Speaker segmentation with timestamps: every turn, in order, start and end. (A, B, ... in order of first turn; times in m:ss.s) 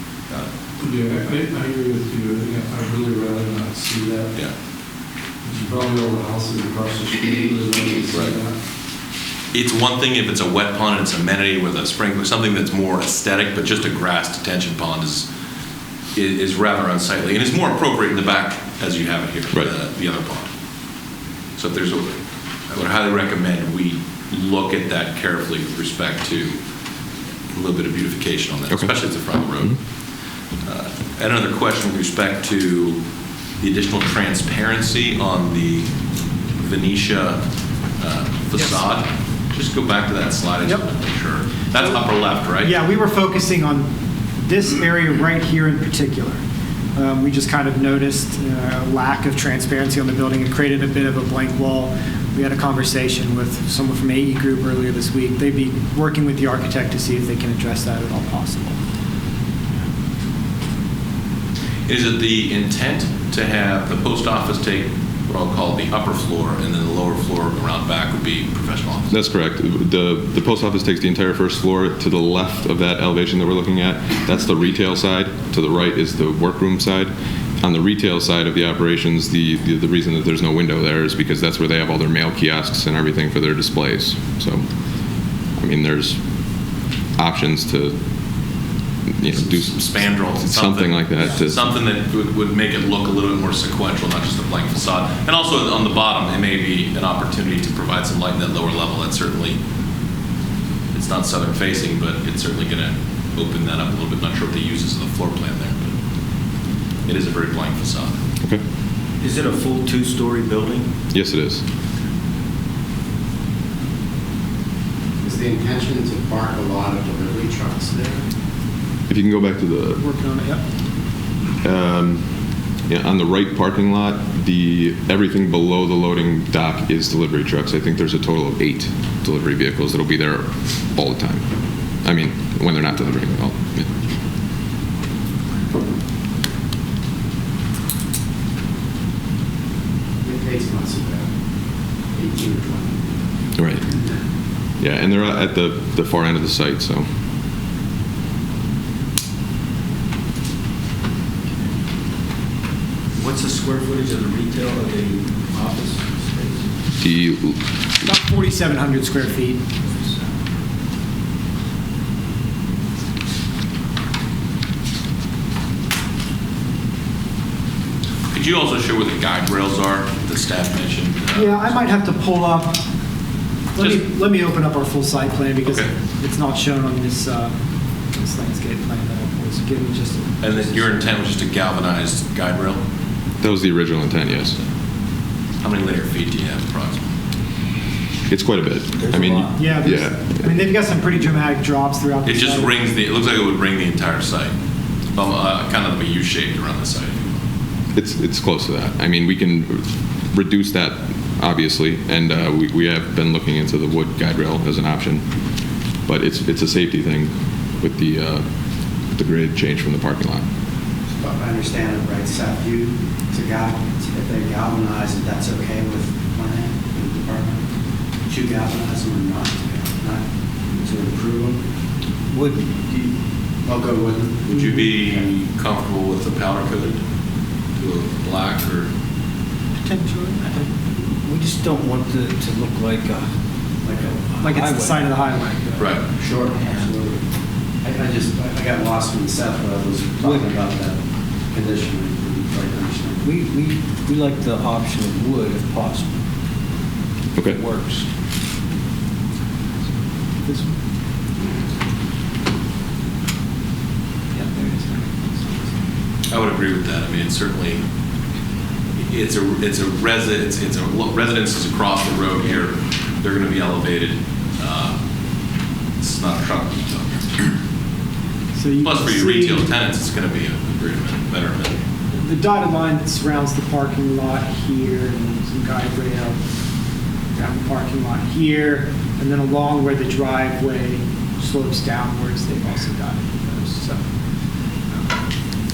0:00.8-0:04.3 A
0:05.4-0:08.6 A
0:09.5-0:15.3 B
0:16.1-0:20.5 B
0:21.6-0:26.6 B
0:27.5-0:29.8 B
0:28.7-0:29.0 C
0:30.6-0:33.0 B
0:33.6-0:35.9 B
0:36.6-0:37.4 B
0:38.0-0:42.7 B
0:42.6-0:43.9 D
0:44.4-0:46.4 D
0:46.9-0:58.8 D
1:01.9-1:09.1 B
1:09.1-1:24.7 C
1:25.3-1:28.6 C
1:29.2-1:31.7 C
1:29.3-1:39.6 B
1:40.9-1:45.9 B
1:47.0-1:48.2 B
1:49.2-1:50.9 E
1:51.1-1:51.6 C
1:55.2-1:58.2 F
1:59.1-2:00.0 C
2:00.0-2:00.6 D
2:01.6-2:13.9 C
2:20.2-2:21.3 F
2:22.1-2:23.2 F
2:23.6-2:23.9 C
2:24.8-2:27.0 C
2:33.1-2:36.8 E
2:37.0-2:37.6 C
2:38.0-2:39.6 D
2:39.8-2:40.2 E
2:48.3-2:51.9 B
2:51.3-2:52.8 D
2:53.7-2:57.5 D
2:53.8-2:54.0 B
2:55.6-2:55.9 B
2:58.1-3:00.9 D
3:00.4-3:02.8 B
3:03.4-3:04.6 C
3:05.6-3:07.1 B
3:08.3-3:10.5 C
3:09.0-3:09.6 E
3:09.6-3:12.8 D
3:12.2-3:14.5 B
3:15.1-3:17.4 B
3:17.9-3:30.4 C
3:31.1-3:37.6 F
3:38.2-3:41.6 F
3:42.3-3:43.1 E
3:43.6-3:45.2 F
3:44.5-3:47.0 B
3:47.8-3:48.9 B
3:49.8-3:50.7 D
3:51.2-3:53.3 E
3:53.8-3:54.2 F
3:53.9-3:55.2 E
3:54.4-3:56.0 D
3:55.8-3:56.0 B
3:56.1-3:57.2 F
3:57.8-4:01.0 F
4:00.2-4:00.7 E
4:01.5-4:03.3 F
4:03.2-4:06.2 E
4:07.3-4:07.6 C
4:07.5-4:08.1 E
4:10.5-4:10.7 D
4:14.3-4:15.7 D
4:16.3-4:17.8 B
4:19.0-4:25.0 B
4:26.0-4:27.5 B
4:28.5-4:29.7 D
4:28.8-4:31.8 B
4:32.1-4:36.4 D
4:37.3-4:44.0 D
4:44.9-4:45.2 D